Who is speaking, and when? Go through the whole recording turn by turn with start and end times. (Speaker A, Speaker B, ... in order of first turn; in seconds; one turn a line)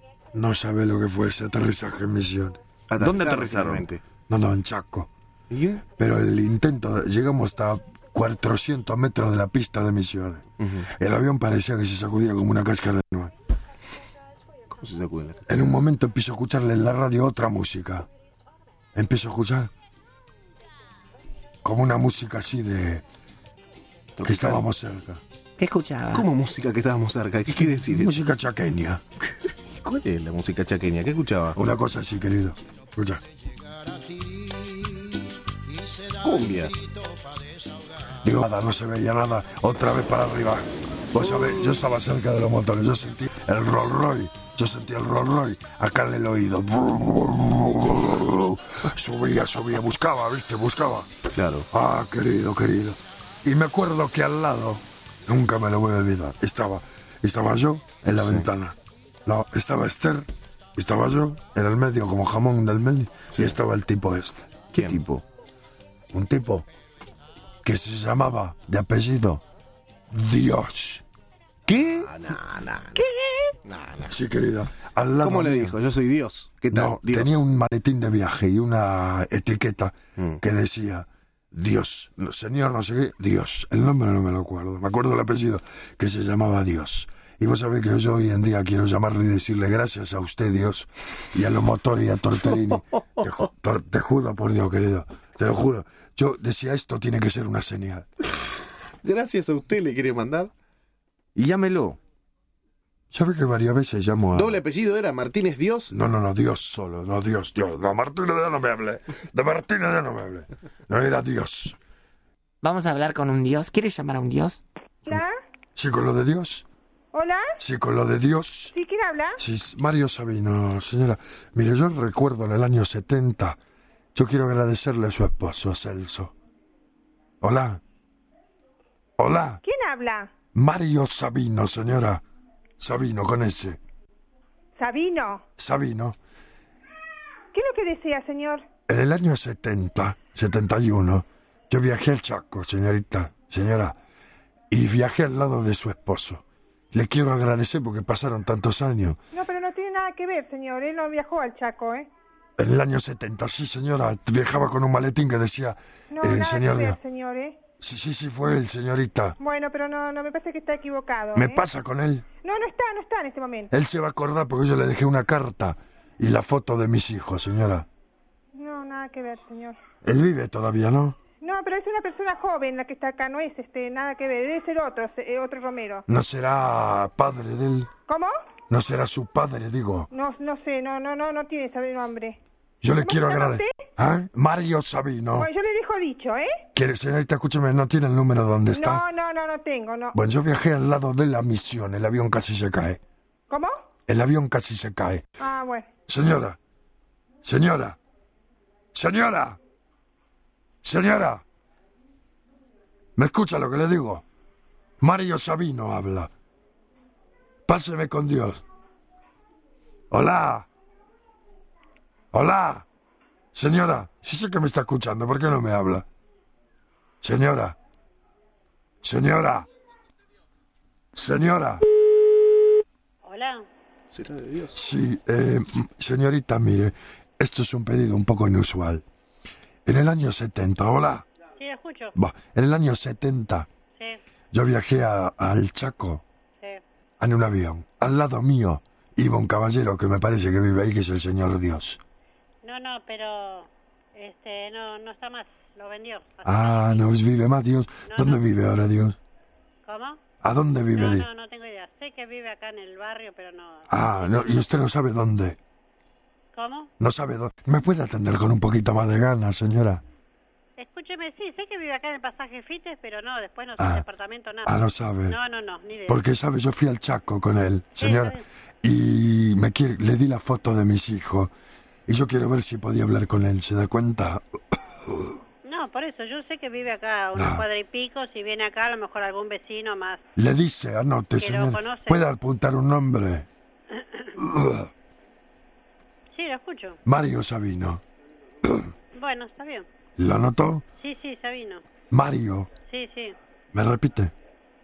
Speaker A: 0.3-2.6
Speaker B: 2.9-4.0
Speaker C: 3.0-3.9
Speaker A: 4.3-5.1
Speaker B: 5.5-5.9
Speaker A: 6.0-13.3
Speaker B: 10.6-10.9
Speaker B: 14.7-15.8
Speaker A: 15.5-18.1
Speaker A: 18.9-19.7
Speaker A: 21.6-23.0
Speaker B: 24.2-24.6
Speaker A: 24.2-25.2
Speaker D: 25.6-26.3
Speaker B: 26.1-28.2
Speaker A: 27.8-29.0
Speaker B: 29.6-31.6
Speaker A: 31.6-33.2
Speaker B: 34.2-34.9
Speaker B: 36.1-36.9
Speaker A: 38.2-51.1
Speaker B: 41.2-41.9
Speaker B: 51.4-51.7
Speaker A: 51.7-64.7
Speaker B: 58.2-58.5
Speaker B: 63.3-63.6
Speaker C: 64.7-65.2
Speaker B: 64.7-65.2
Speaker A: 66.1-66.7
Speaker A: 67.7-69.4
Speaker A: 70.1-71.0
Speaker B: 71.7-73.1
Speaker D: 73.0-73.5
Speaker B: 73.7-74.2
Speaker A: 74.1-75.8
Speaker B: 75.2-77.4
Speaker A: 76.7-98.1
Speaker B: 99.0-100.5
Speaker C: 101.4-102.0
Speaker A: 103.1-104.6
Speaker B: 104.3-105.9
Speaker A: 105.9-111.8
Speaker D: 112.6-114.6
Speaker E: 115.1-115.3
Speaker A: 115.8-116.7
Speaker E: 117.1-117.5
Speaker A: 117.6-118.8
Speaker E: 118.7-119.4
Speaker A: 119.4-123.6
Speaker A: 124.2-126.3
Speaker A: 127.4-127.8
Speaker A: 129.2-129.6
Speaker E: 129.6-130.3
Speaker A: 130.5-132.2
Speaker A: 132.8-133.8
Speaker E: 134.8-135.4
Speaker A: 135.6-136.2
Speaker E: 137.5-138.7
Speaker A: 138.9-144.0
Speaker A: 144.7-149.2
Speaker E: 149.3-152.1
Speaker A: 152.6-157.0
Speaker E: 156.1-157.6
Speaker A: 157.8-159.4
Speaker E: 159.4-161.7
Speaker A: 161.3-162.3
Speaker E: 162.4-163.7
Speaker A: 163.7-167.9
Speaker E: 168.6-169.8
Speaker A: 170.0-171.2
Speaker E: 171.4-176.0
Speaker A: 176.1-177.9
Speaker E: 178.1-178.3
Speaker A: 178.7-180.1
Speaker E: 180.1-182.4
Speaker A: 182.8-185.5
Speaker E: 182.9-183.7
Speaker E: 185.4-186.5
Speaker A: 186.8-189.1
Speaker E: 188.7-190.2
Speaker A: 190.1-193.0
Speaker A: 194.1-195.2
Speaker E: 195.4-195.9
Speaker A: 196.1-196.6
Speaker A: 197.4-198.0
Speaker A: 198.9-199.6
Speaker A: 200.8-201.4
Speaker A: 203.2-204.2
Speaker A: 205.0-206.3
Speaker A: 207.7-208.6
Speaker A: 210.1-210.7
Speaker A: 212.3-212.9
Speaker A: 213.5-216.1
Speaker A: 217.2-217.8
Speaker A: 219.0-219.7
Speaker A: 221.2-221.8
Speaker F: 223.2-223.6
Speaker B: 224.1-224.8
Speaker A: 224.7-229.0
Speaker A: 229.9-231.3
Speaker F: 231.6-232.1
Speaker A: 232.2-233.7
Speaker A: 234.5-236.2
Speaker A: 237.2-242.0
Speaker F: 242.6-247.1
Speaker A: 246.4-249.2
Speaker F: 248.1-248.4
Speaker F: 249.9-250.2
Speaker A: 250.4-251.3
Speaker F: 250.9-253.8
Speaker A: 253.9-255.6
Speaker F: 256.6-256.9
Speaker A: 257.0-260.0
Speaker F: 260.8-266.2
Speaker A: 263.8-264.1
Speaker A: 264.6-265.4
Speaker A: 266.1-271.5
Speaker F: 268.0-268.4
Speaker A: 272.1-275.4
Speaker F: 275.6-280.2
Speaker A: 277.3-277.7
Speaker A: 280.4-283.5
Speaker F: 281.4-282.2
Speaker A: 284.4-284.9
Speaker F: 286.3-287.0
Speaker A: 287.1-288.0
Speaker F: 289.1-289.9
Speaker A: 290.2-290.9
Speaker F: 291.0-291.8
Speaker A: 292.1-292.7
Speaker F: 292.9-293.4
Speaker A: 293.7-294.3